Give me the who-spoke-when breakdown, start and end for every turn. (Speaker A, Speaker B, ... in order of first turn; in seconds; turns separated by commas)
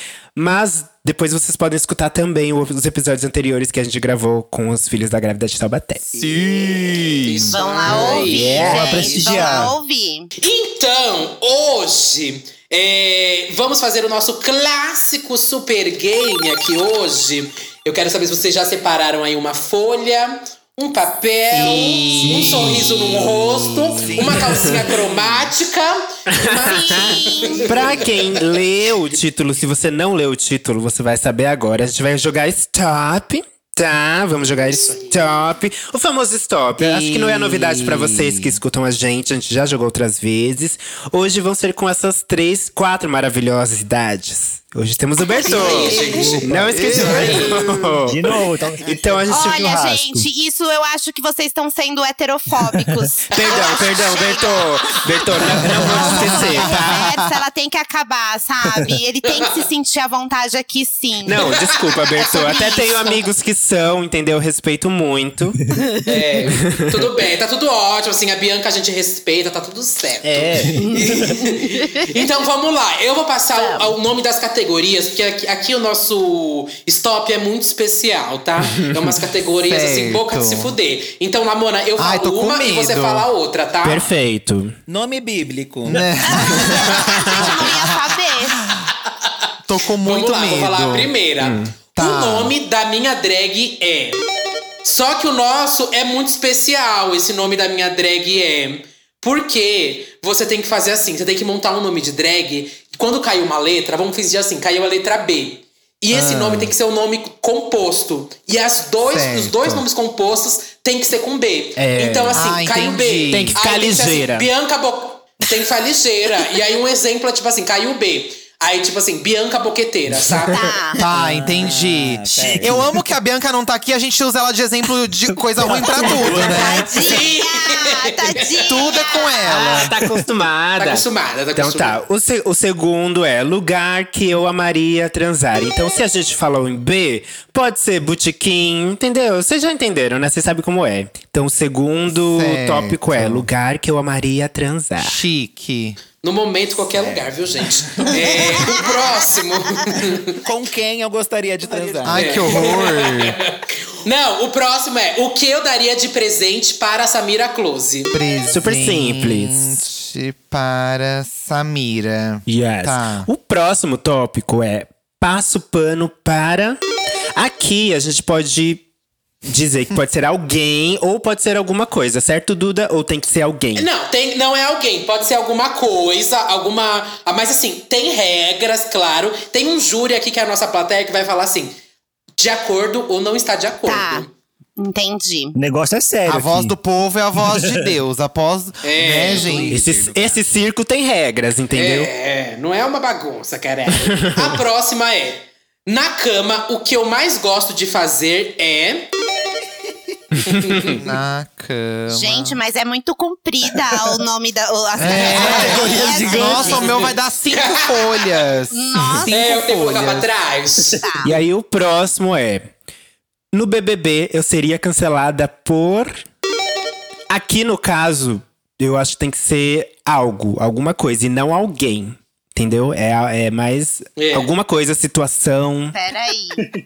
Speaker A: 0.4-6.1, Speaker B: 6.1-8.2, Speaker C: 6.2-7.5, Speaker D: 7.2-9.7, Speaker E: 7.5-10.3, Speaker A: 8.3-9.0, Speaker F: 8.4-9.8, Speaker D: 10.4-28.1, Speaker C: 21.5-24.6, Speaker A: 22.2-22.9, Speaker B: 24.0-25.5, Speaker A: 26.3-27.0, Speaker E: 26.7-27.7, Speaker A: 27.7-48.2, Speaker D: 34.7-35.3, Speaker B: 36.8-38.4, Speaker E: 45.2-45.8, Speaker D: 45.5-46.5, Speaker B: 45.5-46.4, Speaker F: 46.2-47.2, Speaker C: 46.5-48.0, Speaker D: 47.0-47.6, Speaker F: 48.0-50.3, Speaker A: 48.9-49.7, Speaker E: 49.3-54.6, Speaker A: 53.3-57.0, Speaker D: 53.4-54.6, Speaker E: 55.8-61.7, Speaker C: 56.0-57.3, Speaker A: 61.3-65.6, Speaker E: 62.2-63.2, Speaker D: 66.0-84.0, Speaker A: 70.2-70.8, Speaker E: 70.8-72.2, Speaker E: 73.6-73.9, Speaker C: 79.6-80.8, Speaker C: 82.0-83.3, Speaker A: 83.8-84.8, Speaker B: 84.9-86.1, Speaker C: 85.9-88.0, Speaker E: 86.3-88.6, Speaker C: 89.7-91.1, Speaker D: 90.0-94.2, Speaker A: 91.4-91.7, Speaker C: 92.0-92.5, Speaker D: 94.8-120.7, Speaker C: 106.1-106.7, Speaker C: 109.1-109.8, Speaker A: 111.8-112.4, Speaker C: 112.3-113.5, Speaker A: 113.3-114.5, Speaker E: 120.5-121.0, Speaker C: 121.0-126.9, Speaker B: 121.1-122.9, Speaker B: 126.0-126.6, Speaker E: 126.4-129.6, Speaker D: 127.0-128.9, Speaker C: 128.7-129.9, Speaker A: 129.5-131.0, Speaker D: 130.8-132.0, Speaker A: 131.6-145.2, Speaker C: 142.1-143.5, Speaker C: 145.0-146.0, Speaker D: 146.2-150.4, Speaker B: 146.9-147.3, Speaker B: 150.4-152.8, Speaker D: 152.0-158.1, Speaker C: 152.0-153.4, Speaker C: 158.1-163.3, Speaker A: 158.5-159.8, Speaker A: 162.5-166.8, Speaker A: 167.4-168.8, Speaker A: 169.5-173.9, Speaker D: 173.8-181.7, Speaker D: 182.4-184.3, Speaker E: 183.9-184.3, Speaker E: 184.8-185.6, Speaker F: 185.6-186.7, Speaker C: 186.3-189.8, Speaker F: 187.4-187.9, Speaker D: 188.8-189.7, Speaker B: 189.1-190.4, Speaker A: 189.7-192.1, Speaker D: 191.7-199.1, Speaker D: 200.5-201.0, Speaker C: 200.9-202.6, Speaker E: 202.1-207.0, Speaker C: 205.0-210.3, Speaker F: 205.9-206.7, Speaker D: 207.5-208.2, Speaker E: 208.7-209.3, Speaker D: 209.3-211.0, Speaker E: 210.9-211.3, Speaker A: 211.2-212.7, Speaker A: 213.5-216.2, Speaker A: 217.3-225.9, Speaker D: 224.2-224.5, Speaker E: 225.9-226.6